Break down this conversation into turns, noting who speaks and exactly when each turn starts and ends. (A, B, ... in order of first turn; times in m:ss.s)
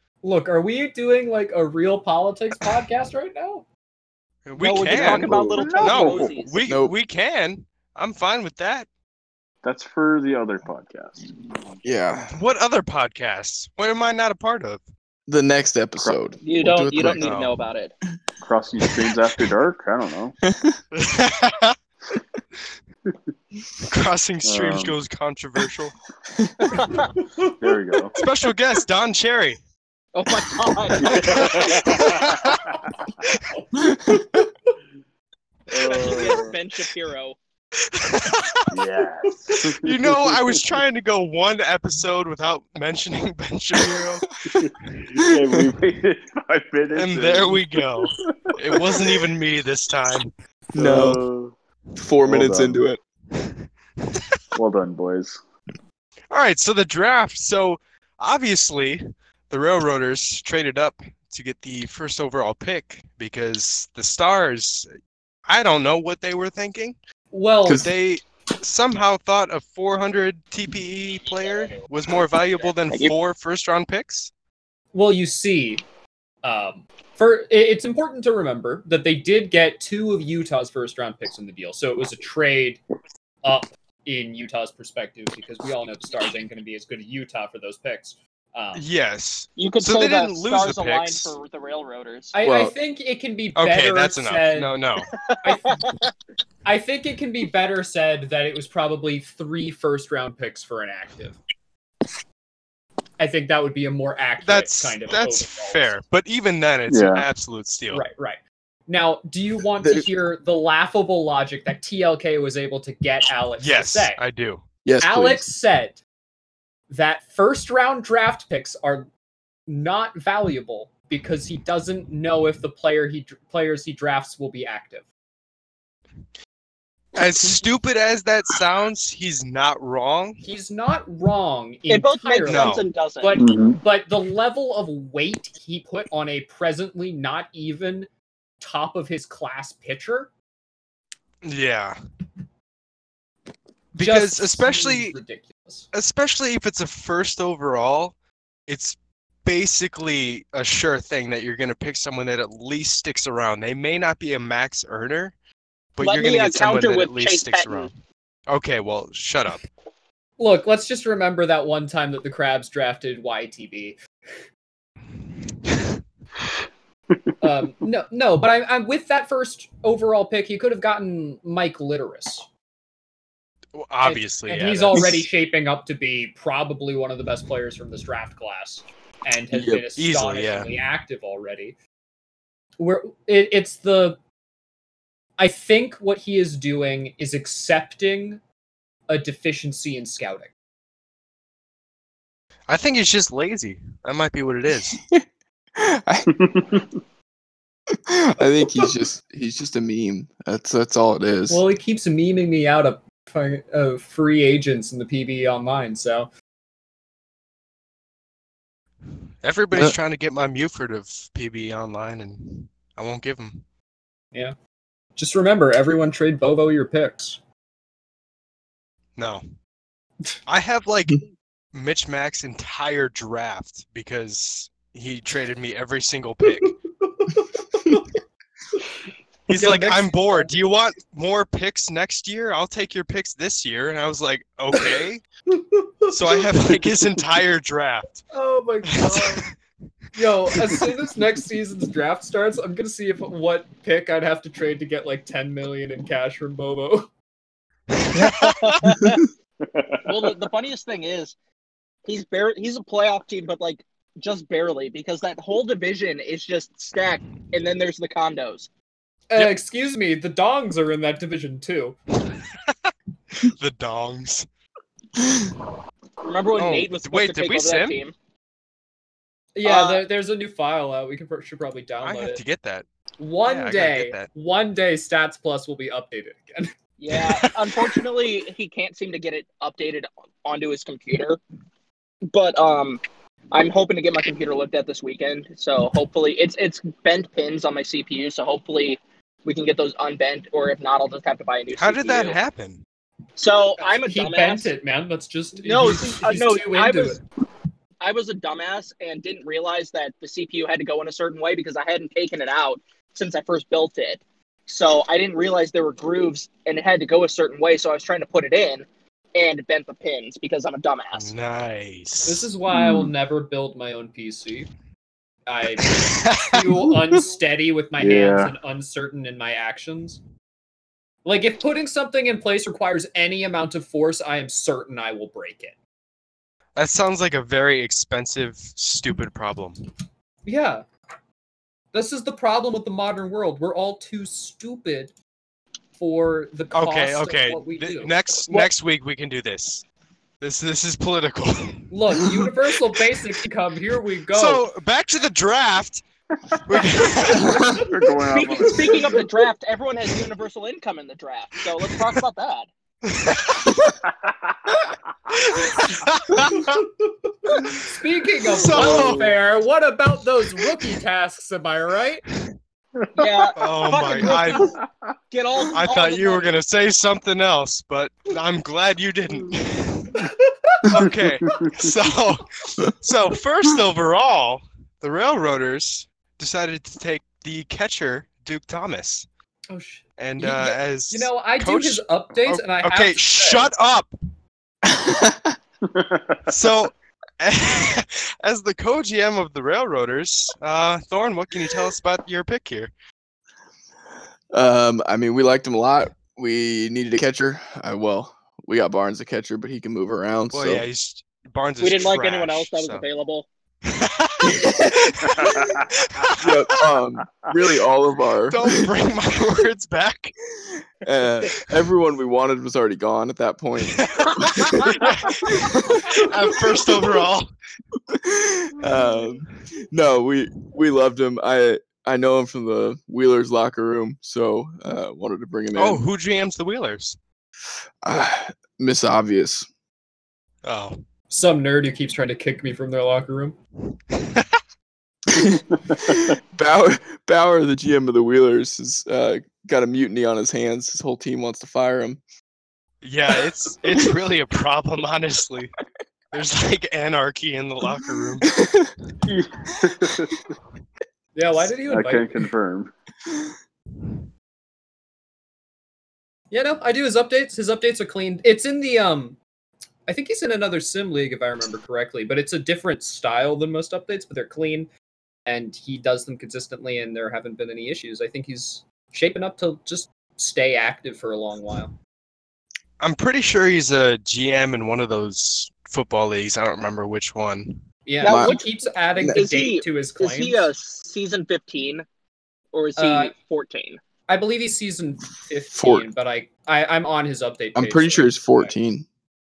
0:00.2-0:03.6 A
0:04.4-0:08.9 B
0:04.6-0:06.7 C
0:04.8-0:06.3 D
0:06.7-0:06.9 E
0:09.6-0:11.3 D
0:11.8-0:12.3 E
0:12.3-0:14.8 B
0:15.3-0:17.3 E
0:16.4-0:17.9 C
0:17.2-0:17.6 B
0:18.4-0:20.4 D
0:20.4-0:20.8 E
0:21.0-0:21.8 B
0:23.9-0:26.0 B
0:24.4-0:25.0 D
0:26.7-0:27.1 C
0:27.2-0:27.5 A
0:27.6-0:28.2 D
0:28.2-0:29.6 B
0:30.1-0:31.9 C
0:31.0-0:32.7 D
0:31.7-0:32.6 B
0:33.6-0:34.4 A
0:33.8-0:34.2 E
0:35.7-0:36.5 D
0:35.8-0:37.4 C
0:37.9-0:38.6 B
0:38.7-0:40.6 D
0:39.8-0:44.3 B
0:44.6-0:49.2 D
0:45.2-0:45.6 E
0:46.9-0:50.3 B
0:50.7-0:51.5 D
0:50.7-0:51.2 E
0:52.0-0:53.0 E
0:52.2-0:52.8 D
0:54.5-0:55.4 D
0:56.3-1:04.9 B
1:05.5-1:07.0 B
1:07.3-1:07.8 A
1:07.6-1:07.9 E
1:07.7-1:14.3 B
1:12.6-1:13.1 C
1:14.9-1:15.8 A
1:16.4-1:22.8 A
1:23.4-1:28.8 A
1:28.7-1:31.3 B
1:29.6-1:32.3 C
1:32.3-1:34.7 A
1:32.4-1:32.7 E
1:33.6-1:35.1 B
1:35.3-1:35.9 C
1:35.4-1:35.8 A
1:36.6-1:41.4 A
1:43.2-1:46.0 A
1:44.4-1:48.0 B
1:46.9-1:47.2 D
1:47.9-1:54.2 A
1:49.8-1:50.1 E
1:53.6-1:54.6 B
1:54.8-1:55.4 E
1:55.0-1:56.0 A
1:56.9-1:59.1 A
1:59.7-2:05.1 A
2:07.2-2:10.4 B
2:10.4-2:18.1 A
2:11.9-2:13.4 C
2:12.4-2:12.8 B
2:13.4-2:13.8 D
2:18.6-2:20.3 A
2:21.4-2:22.0 B
2:23.9-2:25.1 B
2:24.0-2:25.9 A
2:25.9-2:28.1 B
2:28.7-2:35.3 B
2:36.0-2:37.9 B
2:36.0-2:37.9 C
2:38.5-2:39.6 B
2:40.4-2:44.0 A
2:47.4-2:52.5 A
2:53.7-2:55.1 B
2:54.0-3:01.8 A
2:54.9-2:55.3 E
2:59.5-2:59.8 E
3:00.0-3:00.7 B
3:02.8-3:04.2 A
3:05.4-3:08.4 A
3:09.1-3:10.5 A
3:12.7-3:15.0 B
3:15.8-3:16.3 E
3:16.4-3:16.8 D
3:18.1-3:21.6 E
3:21.5-3:26.3 A
3:29.4-3:33.6 B
3:35.2-3:37.4 A
3:39.2-3:39.4 B
3:40.5-3:41.2 B
3:41.7-3:46.8 B
3:47.1-3:48.0 A
3:49.5-3:55.2 B
3:49.5-3:50.6 A
3:55.5-3:56.1 A
3:56.1-3:58.2 B
3:58.3-3:59.5 A
3:58.8-3:59.5 B
4:00.1-4:07.1 A
4:07.9-4:08.7 B
4:08.1-4:09.2 C
4:09.7-4:10.0 D
4:10.0-4:11.3 C
4:12.0-4:18.7 C
4:19.3-4:22.0 A
4:22.3-4:24.4 B
4:26.2-4:28.1 C
4:26.6-4:28.0 B
4:29.5-4:32.4 A
4:29.6-4:30.0 C
4:32.0-4:32.8 B
4:33.2-4:36.7 A
4:33.4-4:34.3 B
4:37.0-4:41.4 C
4:42.3-4:52.4 C
4:51.8-4:52.8 B
4:53.4-4:54.7 C
4:53.8-4:57.2 A
4:55.6-4:57.2 C
4:58.0-5:11.3 C
5:11.1-5:12.5 B
5:12.2-5:14.7 A
5:12.7-5:13.1 D
5:15.4-5:20.2 A
5:15.9-5:16.5 B
5:18.0-5:18.5 D
5:21.2-5:25.8 A
5:26.8-5:29.8 B
5:30.4-5:30.8 A
5:31.9-5:35.1 A
5:36.0-5:38.7 A
5:36.7-5:39.8 B
5:40.4-5:41.8 B
5:41.9-5:44.6 A
5:44.3-5:46.0 B
5:46.6-5:47.8 B
5:47.4-5:49.2 D
5:48.3-5:52.7 C
5:53.1-5:53.8 B
5:55.5-5:56.6 B
5:57.5-6:02.2 A
5:58.5-5:59.4 B
5:58.8-5:59.1 D
6:03.0-6:03.5 D
6:03.2-6:04.7 C
6:03.6-6:04.7 B
6:05.3-6:06.5 C
6:05.7-6:10.2 B
6:10.9-6:19.2 B
6:11.0-6:11.9 D
6:19.7-6:23.7 A
6:20.2-6:24.1 B
6:24.9-6:25.5 E
6:25.9-6:26.5 D
6:26.5-6:32.9 B
6:34.5-6:40.8 E
6:40.5-6:43.0 B
6:41.8-6:43.5 C
6:43.8-6:46.7 B
6:44.4-6:45.1 E
6:46.4-6:48.9 E
6:48.5-6:50.3 B
6:51.0-6:54.9 E
6:54.0-6:57.5 B
6:58.1-7:06.0 E
7:05.7-7:07.2 B
7:08.0-7:09.7 E
7:10.6-7:11.0 B
7:11.3-7:13.6 A
7:14.1-7:14.4 B
7:15.3-7:22.2 E
7:23.0-7:25.7 B
7:26.3-7:28.5 B
7:28.6-7:28.9 E
7:29.2-7:30.4 D
7:31.3-7:32.3 A
7:31.9-7:32.9 D
7:36.5-7:39.4 A
7:40.1-7:44.9 A
7:45.4-7:51.9 A
7:53.0-7:57.8 B
7:58.0-8:00.7 A
7:58.2-7:58.7 C
7:58.2-7:58.6 E
7:59.3-8:02.0 C
8:02.7-8:04.0 C
8:03.0-8:03.3 A
8:04.3-8:08.7 A
8:05.7-8:06.1 E
8:07.7-8:09.0 E